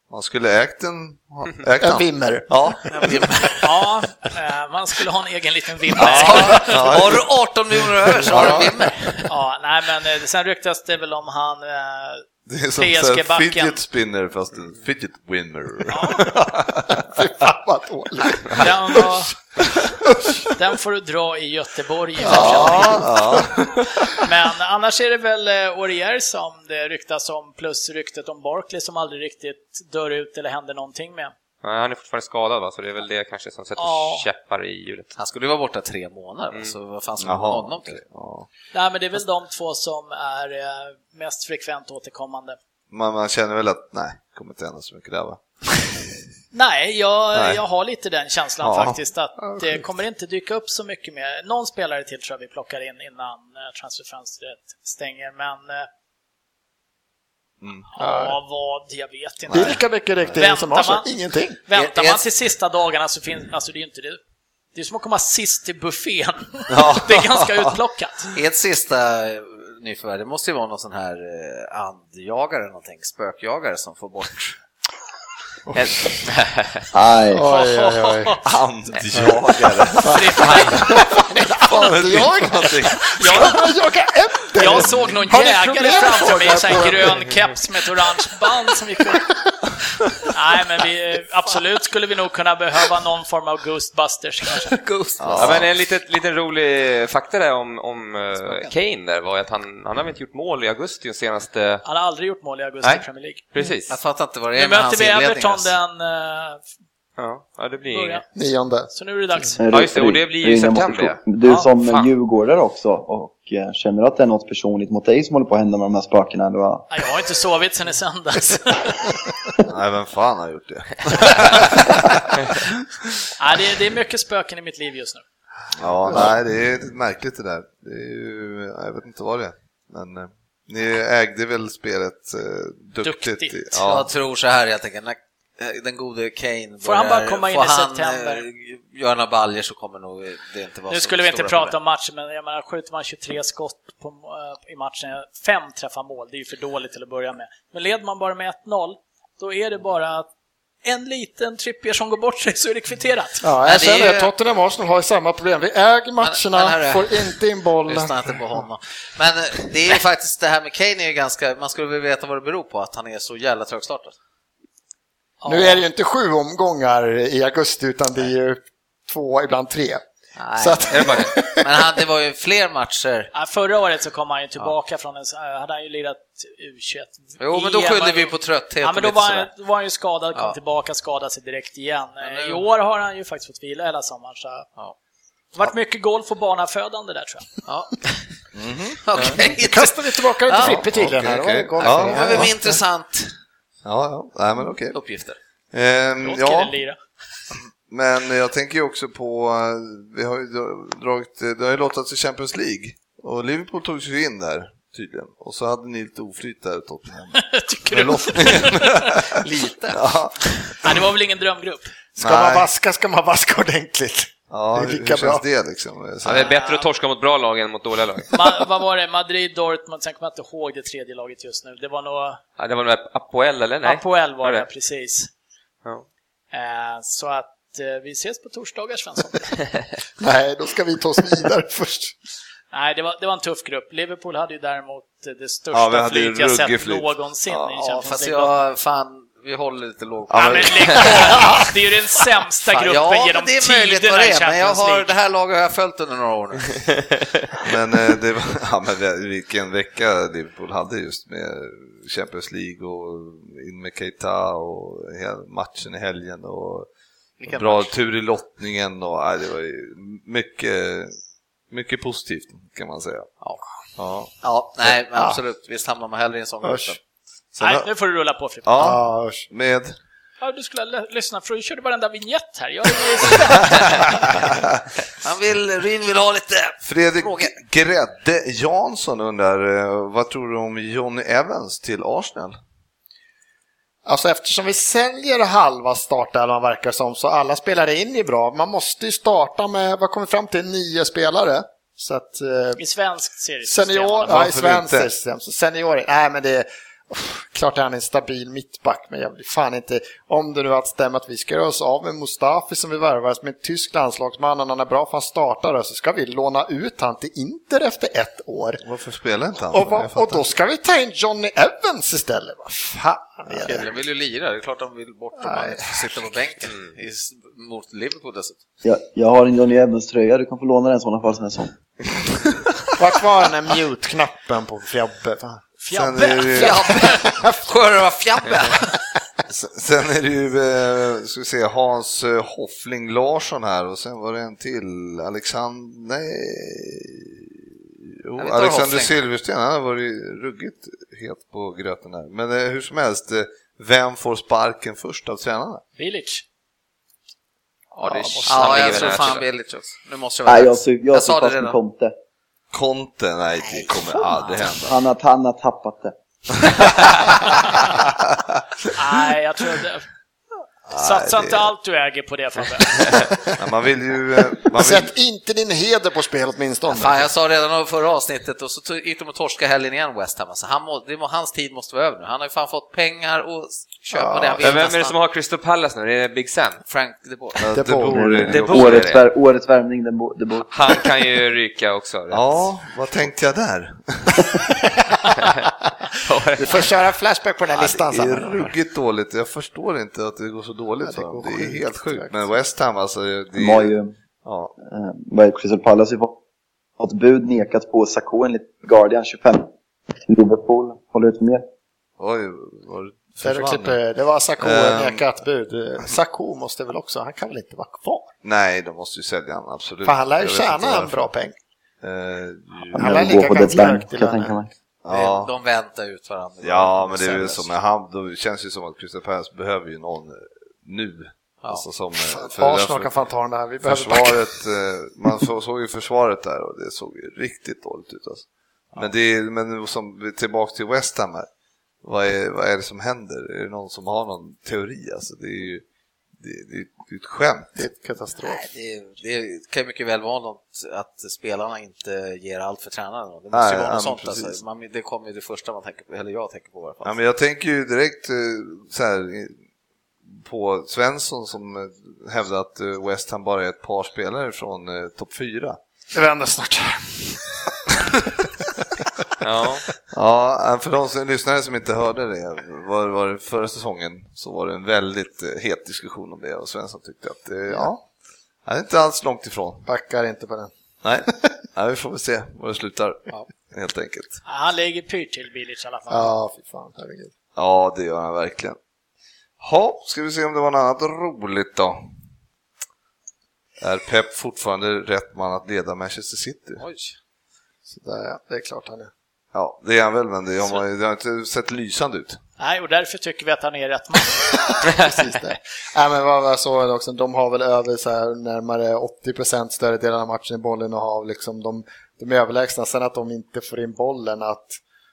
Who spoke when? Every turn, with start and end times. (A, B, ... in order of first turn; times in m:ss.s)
0:00.1-0:03.1 A
0:01.8-0:02.5 B
0:02.9-0:03.8 C
0:03.6-0:07.0 D
0:06.0-0:09.3 C
0:06.0-0:07.3 A
0:08.2-0:08.8 A
0:09.3-0:13.8 D
0:12.5-0:17.0 A
0:15.9-0:16.3 D
0:17.1-0:19.1 B
0:18.6-0:19.3 D
0:20.0-0:20.4 B
0:20.6-0:23.2 D
0:22.2-0:24.1 A
0:22.3-0:22.7 B
0:24.2-0:31.3 D
0:31.6-0:35.1 E
0:33.8-0:34.3 D
0:35.2-0:38.0 C
0:37.2-0:38.5 A
0:38.7-0:42.6 D
0:42.9-0:45.4 A
0:46.5-0:55.9 D
0:47.3-0:47.6 A
0:48.6-0:49.0 A
0:49.4-0:49.9 B
0:57.6-0:57.9 A
0:57.9-0:59.8 D
0:58.0-0:58.4 B
0:59.5-0:59.8 A
0:59.5-1:01.6 B
1:00.3-1:01.1 D
1:01.6-1:04.2 D
1:01.7-1:02.2 C
1:04.7-1:08.3 D
1:06.7-1:07.7 A
1:08.3-1:14.6 C
1:15.7-1:16.3 B
1:15.8-1:16.8 E
1:16.9-1:17.5 F
1:17.3-1:18.4 B
1:17.4-1:18.6 D
1:18.4-1:20.8 A
1:20.0-1:21.0 D
1:20.0-1:27.3 B
1:21.7-1:23.5 A
1:23.2-1:23.6 D
1:24.6-1:29.2 D
1:30.3-1:34.8 D
1:34.8-1:35.5 C
1:35.2-1:35.7 A
1:35.4-1:41.8 E
1:38.4-1:38.7 D
1:41.8-1:43.7 D
1:42.8-1:44.0 E
1:43.9-1:45.7 C
1:44.5-1:46.6 D
1:47.2-1:48.2 E
1:47.9-1:48.3 D
1:48.4-1:49.6 B
1:48.9-1:49.7 D
1:49.6-1:56.9 F
1:49.7-1:52.1 E
1:51.5-1:51.7 D
1:56.9-1:59.1 D
1:59.7-2:02.7 A
2:03.4-2:05.2 D
2:05.8-2:14.1 A
2:06.1-2:06.3 B
2:13.0-2:13.8 D
2:13.8-2:21.8 C
2:16.8-2:18.5 D
2:20.9-2:30.3 D
2:30.8-2:33.5 D
2:33.4-2:38.7 B
2:33.6-2:34.3 C
2:36.2-2:44.1 C
2:45.4-2:45.8 D
2:45.4-2:50.0 B
2:50.4-2:53.3 C
2:50.6-2:51.8 B
2:50.9-2:51.3 E
2:53.3-3:04.7 D
2:57.4-2:59.5 C
3:02.2-3:02.6 C
3:05.5-3:07.6 D
3:07.7-3:08.2 C
3:08.6-3:09.0 A
3:09.0-3:11.1 C
3:09.4-3:12.8 B
3:10.6-3:12.5 A
3:11.8-3:13.3 C
3:13.8-3:15.0 A
3:14.9-3:15.4 C
3:15.7-3:16.8 A
3:16.2-3:17.0 D
3:17.9-3:29.4 A
3:27.3-3:29.3 D
3:29.5-3:29.9 C
3:29.9-3:30.5 A
3:30.8-3:32.0 D
3:32.2-3:35.4 B
3:32.2-3:32.7 A
3:34.5-3:36.5 A
3:36.2-3:38.3 E
3:36.4-3:36.9 D
3:38.3-3:42.4 D
3:42.6-3:44.7 E
3:43.8-3:45.3 D
3:46.5-3:49.6 D
3:50.2-3:52.2 B
3:52.7-3:58.6 D
3:55.7-3:57.8 A
3:57.8-4:01.4 C
4:00.3-4:01.0 A
4:00.3-4:05.1 D
4:02.7-4:06.8 C
4:07.6-4:16.9 A
4:17.4-4:17.9 C
4:17.5-4:21.1 A
4:21.7-4:23.3 A
4:24.0-4:24.3 A
4:24.4-4:27.0 C
4:25.2-4:25.4 B
4:26.6-4:26.9 B
4:27.6-4:28.9 D
4:27.6-4:27.9 A
4:28.6-4:30.0 A
4:28.8-4:29.5 B
4:30.4-4:34.1 D
4:35.2-4:37.5 C
4:36.8-4:42.6 A
4:44.1-4:52.8 B
4:52.8-4:54.4 D
4:53.6-5:08.8 B
4:54.2-4:55.1 A
5:08.8-5:10.5 A
5:09.7-5:14.0 B
5:13.5-5:18.6 C
5:15.4-5:16.4 B
5:18.8-5:21.7 F
5:23.0-5:25.7 B
5:25.8-5:27.2 D
5:25.9-5:26.8 A
5:26.5-5:28.8 C
5:27.0-5:27.6 B
5:29.5-5:45.8 A
5:38.4-5:39.2 C
5:46.0-5:46.4 D
5:48.0-5:49.4 E
5:48.1-5:48.6 B
5:48.4-5:49.4 D
5:48.4-5:51.8 C
5:50.5-5:52.2 F
5:52.7-5:55.0 A
5:54.7-5:56.2 F
5:56.7-5:57.1 A
5:57.9-5:58.6 A
5:58.9-6:00.0 D
6:00.9-6:01.7 A
6:00.9-6:03.3 D
6:03.6-6:05.1 A
6:04.8-6:07.3 B
6:06.9-6:15.2 C
6:14.1-6:14.7 B
6:14.6-6:16.8 E
6:16.9-6:17.7 C
6:17.6-6:19.2 A
6:17.7-6:18.2 B
6:18.1-6:21.1 F
6:18.5-6:19.2 E
6:20.7-6:22.7 E
6:22.3-6:24.6 A
6:26.2-6:26.9 E
6:26.6-6:28.7 B
6:27.8-6:33.9 A
6:31.0-6:32.5 B
6:33.6-6:34.1 F
6:34.4-6:34.7 A
6:34.8-6:36.4 F
6:37.0-6:39.7 F
6:40.3-6:41.6 F
6:42.2-6:44.0 A
6:43.4-6:48.3 B
6:44.6-6:45.2 A
6:48.4-6:51.3 A
6:50.0-6:51.6 B
6:52.0-6:53.4 A
6:52.9-6:54.6 B
6:53.0-6:54.7 F
6:55.0-6:55.5 A
6:55.1-6:57.7 C
6:56.6-7:03.1 A
7:02.3-7:04.5 B
7:03.8-7:11.5 A
7:12.0-7:15.8 A
7:16.4-7:17.8 A
7:17.8-7:18.7 B
7:18.4-7:27.2 C
7:23.5-7:24.6 A
7:27.0-7:29.6 A
7:30.3-7:35.8 A
7:36.1-7:37.4 B
7:39.4-7:39.8 E
7:40.1-7:48.1 A
7:48.6-7:49.8 A
7:49.9-7:50.7 B
7:51.0-7:54.4 A
7:54.5-7:56.4 D
7:56.1-7:57.3 B
7:57.6-7:58.8 A
7:59.6-8:02.1 A
8:03.8-8:06.8 A
8:06.8-8:07.2 C
8:07.9-8:09.1 B
8:09.5-8:12.4 A
8:12.6-8:14.6 D
8:14.7-8:24.8 B